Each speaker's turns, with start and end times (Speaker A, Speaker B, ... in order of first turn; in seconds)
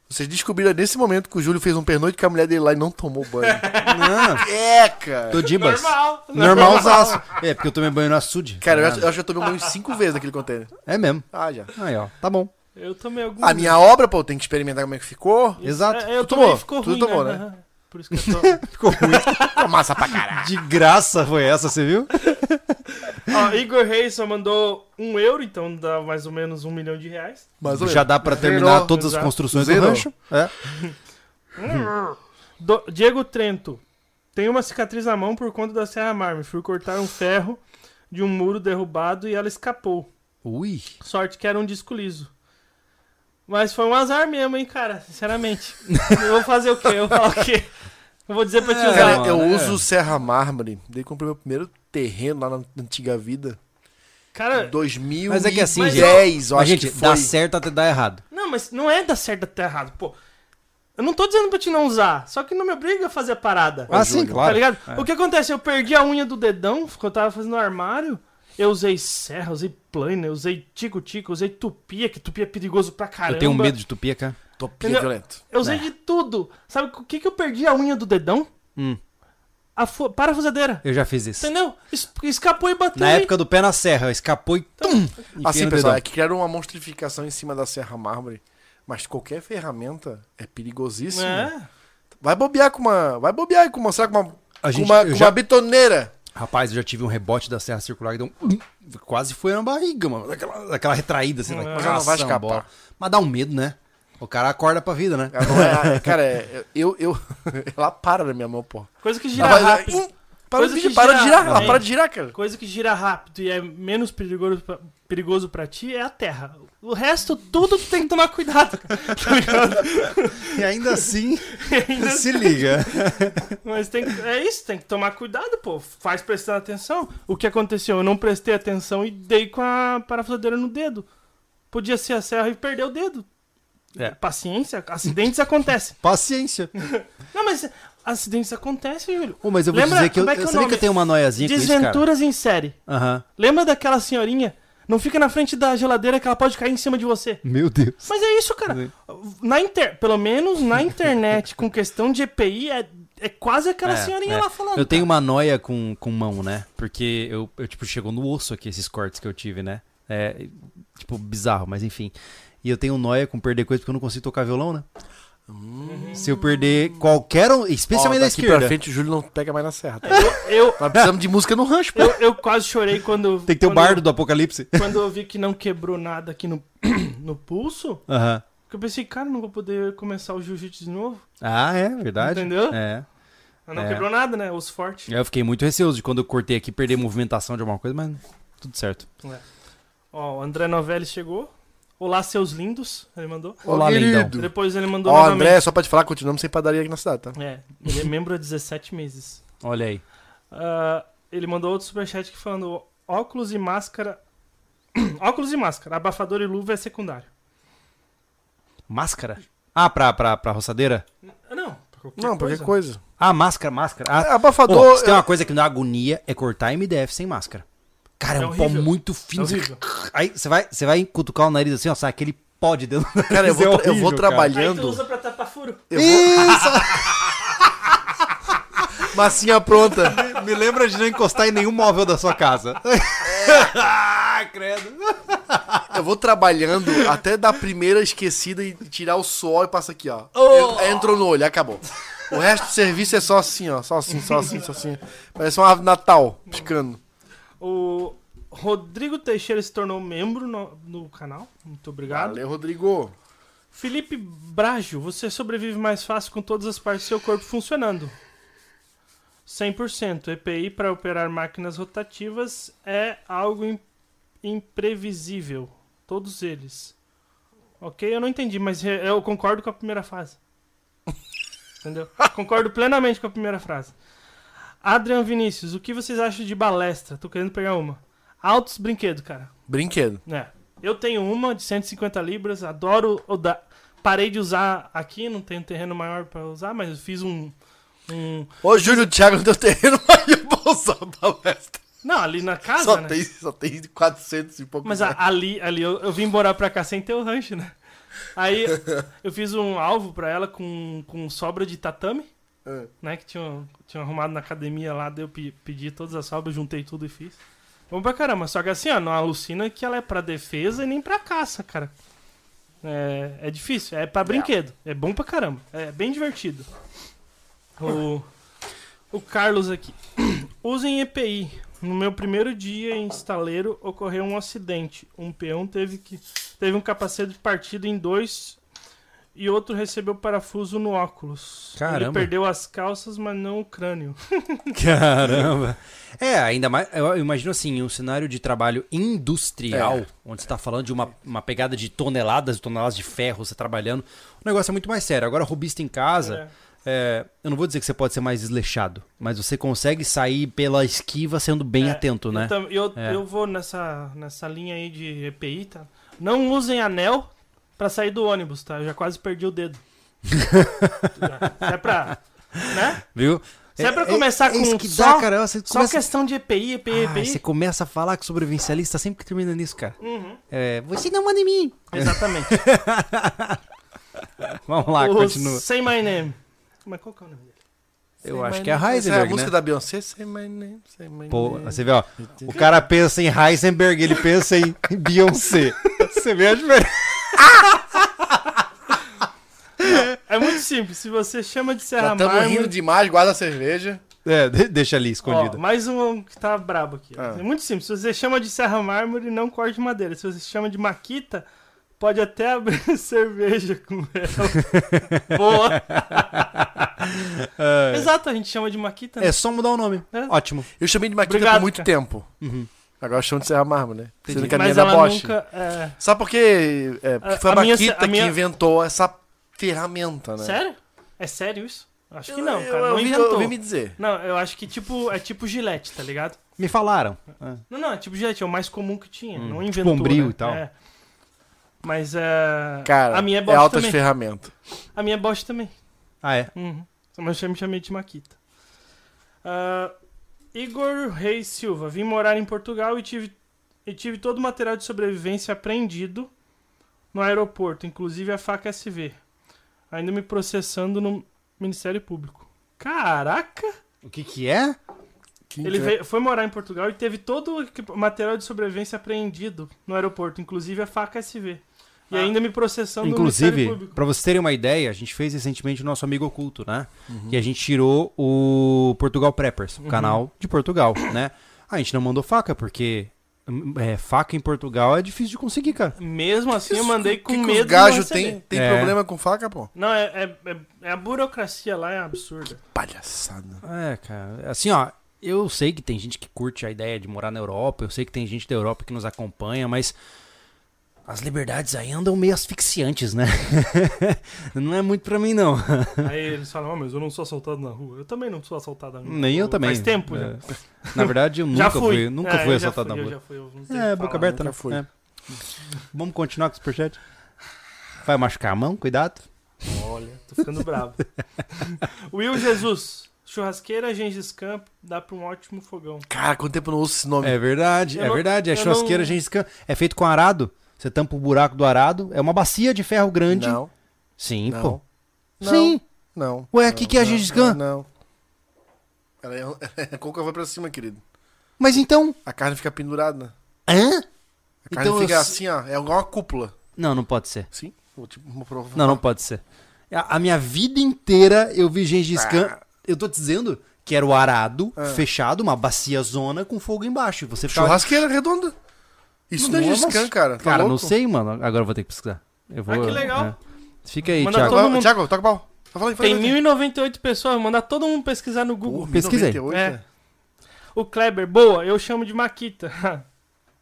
Speaker A: 0.1-3.7, 4.4-5.5, 6.4-7.2, 8.6-10.8, 11.3-11.8, 13.4-17.4, 19.4-20.5, 27.6-30.1, 48.9-53.6, 54.5-57.3, 63.9-64.5, 74.6-75.4, 85.4-91.5, 92.2-96.1, 101.7-102.7, 105.3-112.3, 165.5-167.1, 167.9-172.2, 193.7-197.4, 212.2-213.0, 214.2-215.3, 223.3-225.0, 225.9-226.9, 229.0-230.3, 233.2-233.8, 235.9-247.0, 252.1-253.1, 279.7-280.2, 288.6-291.8, 292.8-295.2, 339.7-340.0, 378.2-382.6, 392.0-394.0, 397.2-397.4, 410.8-412.3, 413.0-415.4, 416.0-420.6, 422.3-424.0, 432.9-434.5, 455.5-455.9, 467.1-467.4, 476.7-479.7, 482.7-483.6, 504.2-504.8, 516.1-517.4, 523.3-523.7, 524.5-524.8, 526.2-527.9, 529.2-531.0, 532.2-533.3, 534.7-536.6, 537.5-539.0, 542.1-542.6, 544.8-545.0, 547.5-548.5, 549.3-550.9, 554.3-556.4, 558.6-559.8
Speaker B: 3.4-4.5, 5.4-7.4, 12.8-13.8, 15.6-19.6, 23.0-27.6, 28.7-29.3, 31.6-33.8, 34.4-40.1, 41.0-42.3, 43.5-49.4, 54.3-54.7, 55.7-56.3, 58.3-60.2, 61.0-73.8, 74.8-78.5, 79.8-83.3, 91.1-91.7, 101.5-102.0, 109.0-110.0, 110.5-131.1, 131.7-133.3, 134.0-136.0, 136.8-142.8, 143.4-147.4, 148.1-155.1, 165.8-166.2, 170.0-170.9, 171.9-174.1, 174.7-178.1, 178.7-181.3, 182.2-182.8, 183.7-185.1, 190.1-193.6, 194.3-195.6, 197.4-199.4, 200.5-204.2, 204.9-207.3, 211.5-212.7, 218.3-219.8, 224.5-225.8, 247.6-252.4, 253.7-258.1, 259.5-263.8, 264.4-266.9, 267.8-270.4, 271.8-273.9, 274.8-279.5, 280.3-287.5, 288.1-289.1, 292.0-293.2, 294.9-297.8, 298.3-302.3, 303.0-307.4, 307.9-311.9, 312.8-316.7, 317.8-318.3, 319.1-328.6, 329.4-334.8, 346.2-346.5, 351.8-359.8, 361.2-363.1, 363.8-367.4, 370.0-370.4, 371.9-372.6, 374.9-377.5, 389.9-392.7, 395.2-401.4, 402.0-406.5, 407.9-409.4, 411.2-411.9, 414.5-416.0, 417.2-418.4, 420.4-426.4, 427.7-430.7, 431.8-434.0, 434.9-435.7, 436.6-438.4, 439.4-439.9, 440.5-446.3, 447.1-449.2, 449.9-453.7, 455.6-464.0, 469.8-470.2, 476.0-478.4, 479.8-482.6, 496.0-504.5, 509.7-516.1, 517.9-519.2, 525.4-525.8, 552.7-553.3, 554.2-554.9, 556.0-559.8, 560.8-563.1
Speaker C: 3.9-4.5, 5.3-9.1, 10.9-12.5, 15.6-16.1, 18.1-19.5, 20.3-22.8, 27.7-30.6, 40.4-41.0, 48.6-49.8, 55.3-58.2, 63.9-65.1, 73.3-74.4, 75.6-75.9, 80.8-81.5, 83.0-86.0, 94.6-95.4, 96.3-106.2, 109.4-109.6, 111.5-111.8, 120.5-123.6, 136.0-136.7, 139.4-142.0, 142.9-143.2, 147.4-148.1, 153.9-164.8, 166.2-168.8, 173.5-175.0, 178.1-178.4, 181.4-183.1, 183.8-184.1, 185.1-189.1, 193.7-194.3, 199.6-200.0, 208.9-211.1, 213.2-217.7, 218.2-224.5, 225.9-227.4, 230.0-235.8, 240.5-240.9, 331.8-332.3, 334.7-353.2, 360.3-366.0, 366.9-370.0, 370.5-373.6, 374.2-375.6, 378.2-379.5, 381.3-388.4, 389.8-390.5, 394.2-395.6, 404.7-408.1, 409.2-410.7, 412.4-412.7, 414.2-414.6, 426.6-427.6, 429.4-430.6, 436.2-436.5, 454.0-454.8, 463.0-476.0, 478.5-479.0, 483.6-489.9, 491.1-496.1, 499.1-500.4, 500.9-503.2, 503.7-504.9, 505.8-507.0, 508.0-509.2, 517.2-523.6, 524.2-524.8, 525.4-525.8, 526.5-527.6, 531.6-532.2, 533.7-534.1, 534.7-535.4, 536.8-537.5, 538.8-547.9, 549.4-554.6, 558.9-559.4